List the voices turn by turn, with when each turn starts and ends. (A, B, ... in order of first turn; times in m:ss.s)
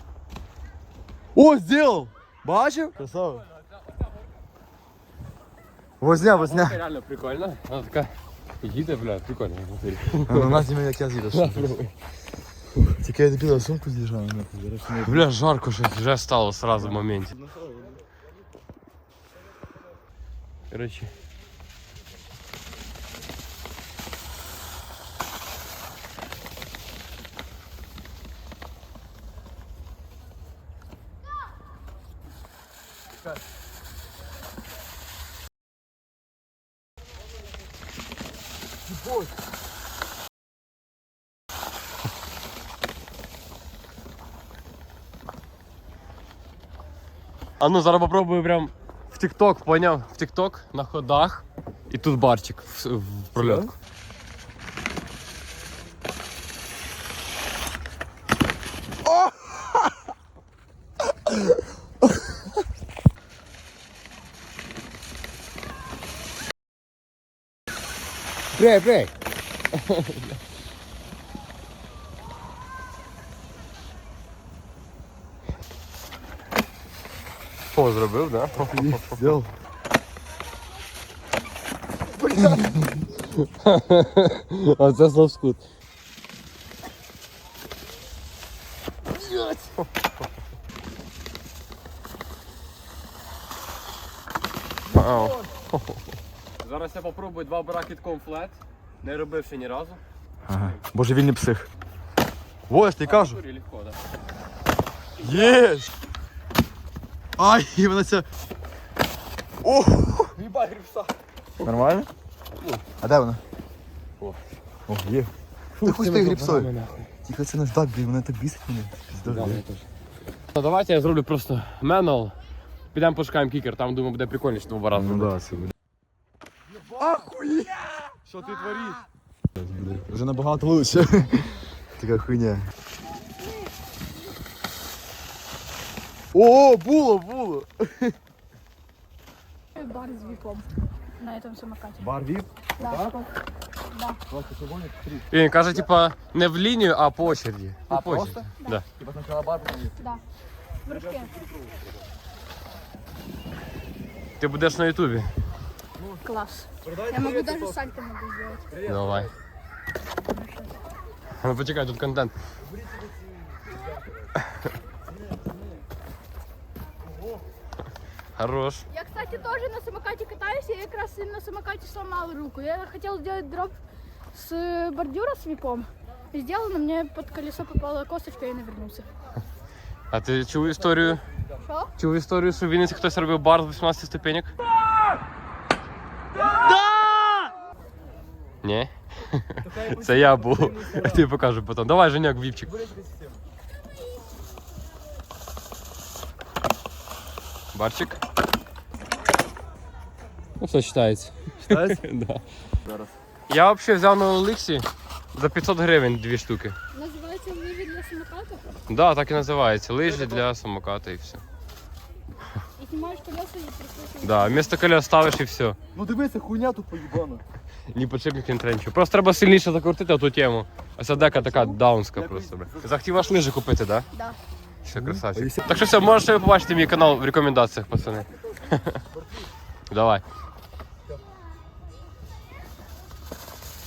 0:01.4-0:03.5 A
0:06.0-0:06.8 A
0:06.3-0:10.7 B
0:10.3-0:11.8 A
0:11.3-0:11.9 B
0:13.0-0:15.3 A
0:14.9-0:17.3 B
0:16.8-0:18.0 A
0:20.7-0:21.1 B
0:47.6-0:53.7 B
0:53.4-0:53.7 A
0:59.3-0:59.7 A
1:08.6-1:09.1 B
1:09.8-1:10.3 B
1:17.7-1:19.2 B
1:18.7-1:19.5 A
1:22.2-1:23.0 A
1:23.2-1:25.6 B
1:34.9-1:36.0 B
1:36.6-1:40.0 B
1:40.5-1:41.7 A
1:42.7-1:43.4 A
1:43.0-1:44.0 B
1:45.2-1:45.9 A
1:45.2-1:45.6 B
1:47.4-1:48.3 A
1:49.6-1:50.9 A
1:50.5-1:51.0 B
1:51.6-1:52.1 A
1:52.5-1:52.8 B
1:53.0-1:53.4 A
1:54.9-1:56.7 A
1:55.8-1:57.1 B
1:57.2-1:59.6 A
1:59.2-1:59.9 B
2:00.5-2:02.4 B
2:02.9-2:05.4 B
2:04.9-2:05.7 A
2:06.9-2:09.0 A
2:09.6-2:12.7 A
2:16.3-2:18.2 A
2:19.8-2:22.0 C
2:22.0-2:23.3 A
2:22.8-2:23.2 C
2:23.9-2:24.2 C
2:24.3-2:25.9 A
2:25.3-2:28.8 B
2:27.9-2:30.0 A
2:30.8-2:31.3 C
2:30.9-2:31.6 A
2:34.4-2:35.4 B
2:36.2-2:38.7 C
2:36.9-2:37.6 A
2:38.8-2:39.3 B
2:38.9-2:39.2 A
2:40.3-2:40.8 C
2:41.4-2:42.3 B
2:48.4-2:48.8 B
2:48.9-2:53.8 C
2:54.3-2:59.1 C
3:00.1-3:01.2 B
3:01.6-3:01.9 C
3:02.0-3:04.5 B
3:06.5-3:07.5 A
3:08.6-3:12.7 B
3:09.6-3:11.3 A
3:12.6-3:13.4 A
3:17.7-3:18.2 B
3:20.6-3:22.4 B
3:21.6-3:22.0 A
3:22.8-3:23.2 A
3:23.5-3:26.8 B
3:26.9-3:28.7 C
3:28.9-3:31.4 B
3:30.0-3:30.4 A
3:32.8-3:34.7 C
3:34.2-3:35.8 B
3:35.9-3:37.4 A
3:37.9-3:44.1 B
3:41.4-3:43.0 A
3:44.1-3:44.4 C
3:44.8-3:49.0 B
3:45.0-3:45.8 A
3:49.9-3:50.2 B